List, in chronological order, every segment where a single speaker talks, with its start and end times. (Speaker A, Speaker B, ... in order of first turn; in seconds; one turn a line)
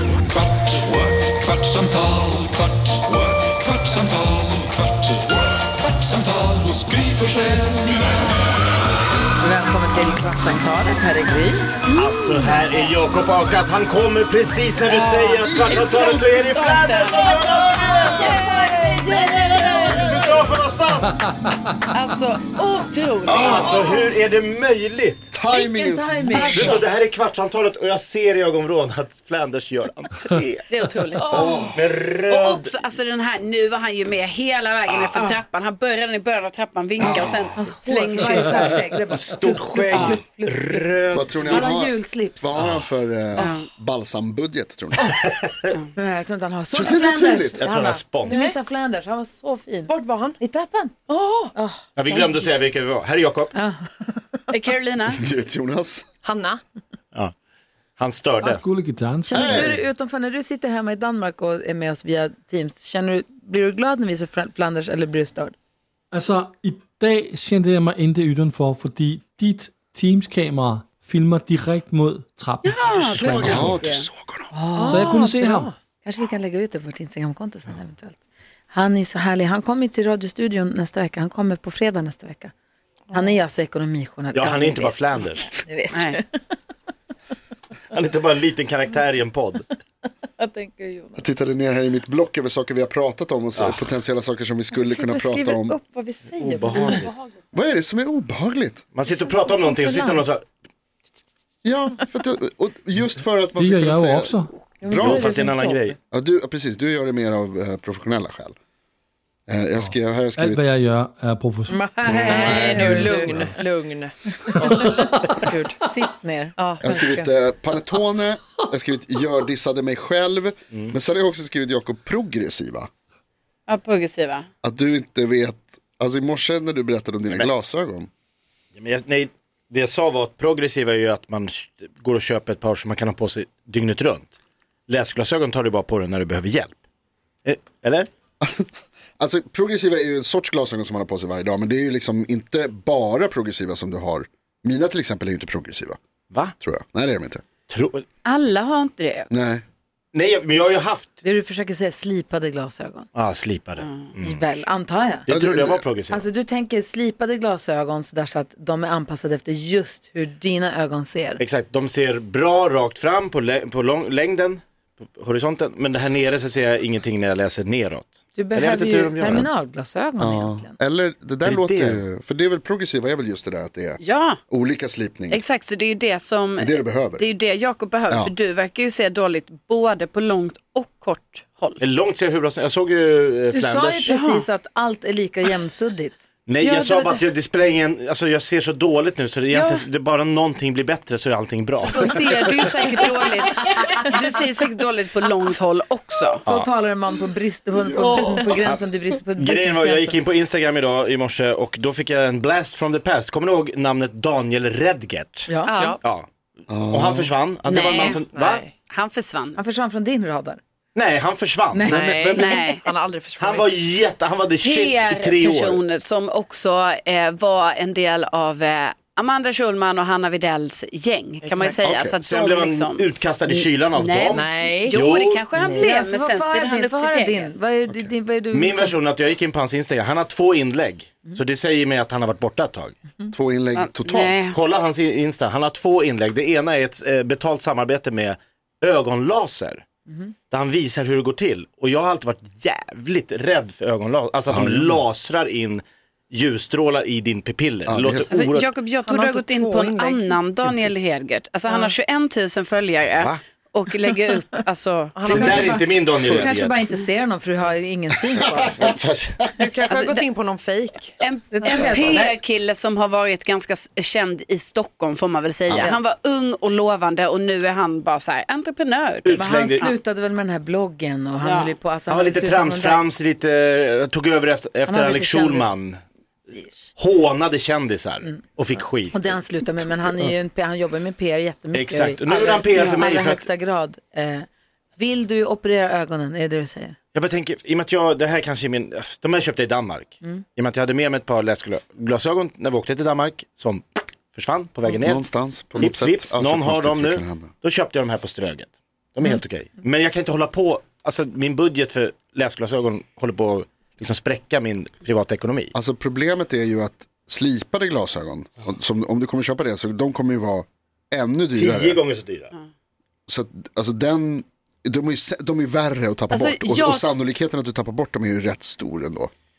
Speaker A: 0.8-5.2
Speaker A: 5.8-6.4
Speaker B: 6.5-7.9
Speaker C: 9.4-11.6
Speaker D: 11.8-12.6
Speaker E: 11.9-21.2
Speaker D: 14.8-18.5
Speaker F: 15.4-16.4
Speaker D: 21.9-24.0
Speaker F: 23.3-23.9
Speaker E: 23.3-25.3
Speaker F: 25.3-26.8
Speaker C: 25.5-26.8
Speaker E: 26.3-30.6
Speaker D: 30.7-31.6
Speaker C: 31.2-31.6
Speaker F: 31.3-31.8
Speaker E: 31.7-32.9
Speaker D: 32.3-38.8
Speaker F: 37.0-37.5
Speaker C: 37.5-42.5
Speaker E: 39.1-41.9
Speaker F: 39.9-40.2
Speaker F: 41.1-45.1
Speaker E: 42.5-42.9
Speaker D: 43.4-43.7
Speaker E: 45.2-45.7
Speaker C: 45.9-50.9
Speaker F: 46.7-47.6
Speaker E: 47.6-48.4
Speaker G: 47.6-48.6
Speaker G: 49.9-50.4
Speaker G: 51.1-51.5
Speaker C: 51.5-52.5
Speaker E: 52.0-53.5
Speaker C: 53.5-54.4
Speaker D: 54.5-55.2
Speaker F: 55.1-56.0
Speaker G: 56.2-56.6
Speaker E: 58.0-58.6
Speaker B: 58.5-59.2
Speaker C: 59.3-65.5
Speaker F: 59.3-59.8
Speaker B: 66.1-72.6
Speaker D: 72.6-74.0
Speaker F: 73.1-74.5
Speaker C: 74.5-75.2
Speaker G: 74.7-75.7
Speaker C: 76.0-78.2
Speaker C: 78.7-82.5
Speaker C: 83.1-86.5
Speaker E: 84.3-85.5
Speaker D: 85.9-86.2
Speaker E: 87.9-89.7
Speaker C: 90.4-91.2
Speaker F: 91.2-95.8
Speaker E: 93.6-93.9
Speaker C: 94.7-97.2
Speaker E: 96.3-97.1
Speaker F: 97.5-98.8
Speaker E: 98.9-100.4
Speaker C: 99.3-100.2
Speaker F: 101.6-105.4
Speaker B: 103.6-104.5
Speaker C: 104.8-105.9
Speaker E: 104.9-106.0
Speaker F: 106.1-108.5
Speaker F: 109.5-110.7
Speaker B: 110.4-111.8
Speaker C: 111.7-113.4
Speaker E: 112.1-112.9
Speaker G: 112.1-115.8
Speaker B: 112.8-113.4
Speaker C: 114.6-117.1
Speaker G: 116.6-117.2
Speaker F: 116.8-122.9
Speaker D: 123.7-124.5
Speaker F: 124.6-128.1
Speaker E: 128.7-134.3
Speaker E: 134.9-136.8
Speaker E: 137.4-138.1
Speaker F: 138.4-146.0
Speaker F: 146.6-147.4
Speaker E: 147.7-148.0
Speaker D: 148.2-149.3
Speaker F: 149.3-149.6
Speaker E: 150.1-151.2
Speaker C: 151.2-153.1
Speaker E: 153.1-154.4
Speaker D: 153.8-154.1
Speaker C: 154.2-155.3
Speaker E: 155.2-156.2
Speaker F: 155.3-155.8
Speaker C: 156.1-161.4
Speaker E: 161.4-164.6
Speaker E: 165.2-169.5
Speaker C: 168.3-170.7
Speaker F: 170.2-175.4
Speaker E: 171.4-172.0
Speaker D: 174.0-174.4
Speaker D: 175.3-181.8
Speaker F: 176.6-177.2
Speaker E: 181.8-184.1
Speaker C: 183.5-186.2
Speaker D: 184.1-184.4
Speaker E: 186.5-193.0
Speaker D: 186.6-187.2
Speaker D: 189.5-189.8
Speaker D: 191.8-196.4
Speaker C: 196.4-200.2
Speaker F: 198.0-198.3
Speaker E: 198.3-198.8
Speaker E: 199.3-205.5
Speaker C: 205.5-205.8
Speaker D: 205.7-206.0
Speaker E: 206.0-206.3
Speaker F: 206.7-207.3
Speaker E: 206.9-208.6
Speaker D: 207.6-208.2
Speaker G: 208.1-208.7
Speaker D: 208.9-209.6
Speaker C: 209.6-210.6
Speaker E: 210.9-212.5
Speaker C: 211.7-212.7
Speaker G: 211.9-213.7
Speaker D: 212.4-212.8
Speaker E: 213.4-215.8
Speaker D: 214.6-227.5
Speaker G: 221.4-221.8
Speaker F: 221.8-222.2
Speaker E: 222.2-225.5
Speaker G: 224.3-224.9
Speaker C: 225.6-228.9
Speaker F: 227.9-228.1
Speaker E: 228.5-233.0
Speaker F: 233.3-234.5
Speaker D: 233.7-234.6
Speaker E: 234.5-239.8
Speaker E: 240.5-248.7
Speaker F: 244.5-245.0
Speaker F: 247.9-248.2
Speaker D: 248.3-255.6
Speaker G: 249.0-250.4
Speaker G: 251.7-251.9
Speaker G: 255.1-255.8
Speaker E: 255.2-256.8
Speaker C: 255.3-258.9
Speaker E: 258.7-259.6
Speaker G: 259.6-261.1
Speaker D: 259.9-260.2
Speaker D: 261.2-269.9
Speaker C: 261.5-262.4
Speaker F: 265.7-265.9
Speaker E: 269.2-269.9
Speaker C: 269.4-273.0
Speaker D: 271.4-271.7
Speaker E: 272.1-276.0
Speaker C: 274.9-275.7
Speaker E: 276.9-279.4
Speaker C: 279.1-286.9
Speaker E: 281.7-283.5
Speaker D: 282.3-283.0
Speaker E: 287.1-305.7
Speaker F: 294.9-297.5
Speaker F: 305.7-312.0
Speaker E: 311.5-312.5
Speaker F: 313.3-319.3
Speaker D: 316.3-317.1